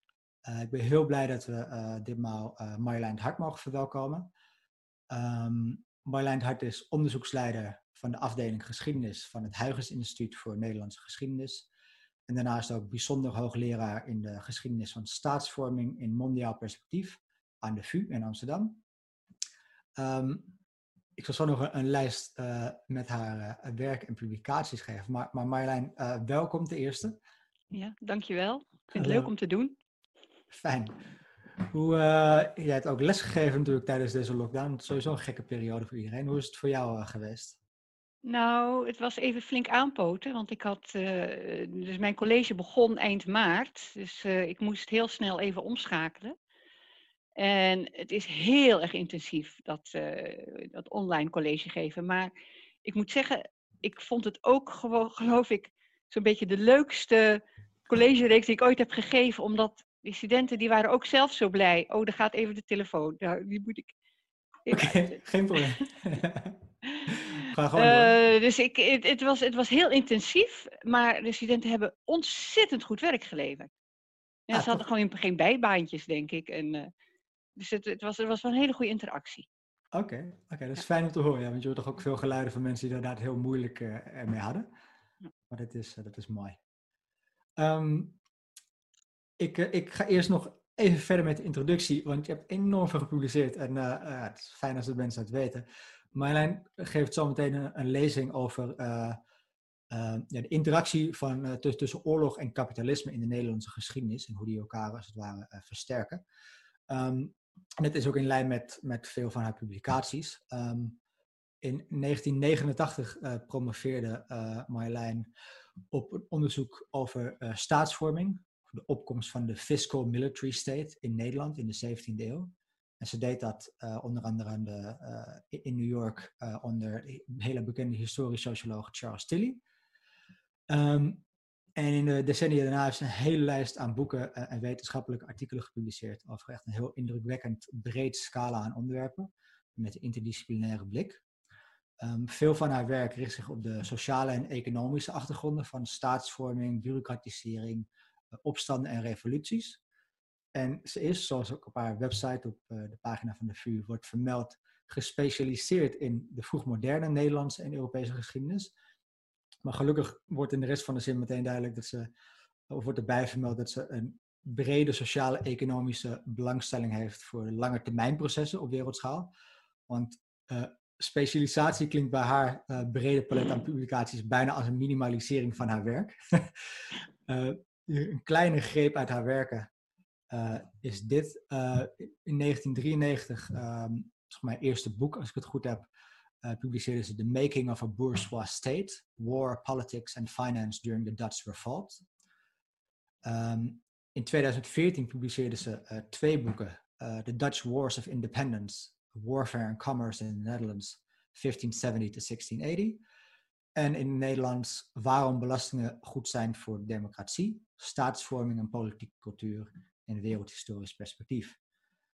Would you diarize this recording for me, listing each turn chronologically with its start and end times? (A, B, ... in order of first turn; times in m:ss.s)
0:00.4-0:04.3 A
0:05.1-0:11.7 A
0:12.3-0:18.8 A
0:20.0-0:20.5 A
0:21.2-0:27.2 A
0:27.7-0:29.8 B
0:29.0-0:29.3 A
0:30.5-0:31.0 A
0:31.6-0:37.6 A
0:38.2-0:46.3 B
0:47.4-0:52.3 B
0:52.8-1:03.9 B
1:04.6-1:05.1 B
1:04.7-1:08.2 A
1:07.8-1:13.7 B
1:14.5-1:16.9 B
1:14.5-1:14.8 A
1:17.6-1:19.5 B
1:19.9-1:24.7 A
1:25.5-1:26.6 A
1:27.6-1:28.2 A
1:29.4-1:39.2 A
1:39.9-1:46.2 A
1:46.9-1:51.0 A
1:51.6-1:55.3 A
1:55.9-2:09.6 A
2:10.7-2:11.2 A
2:11.8-2:21.2 A
2:22.0-2:29.8 A
2:30.5-2:38.7 A
2:39.6-2:42.1 A
2:42.7-2:49.3 A
2:49.9-2:56.5 A
2:57.3-2:59.7 A
3:00.3-3:05.9 A
3:06.4-3:12.0 A
3:13.2-3:23.0 A
3:23.8-3:31.6 A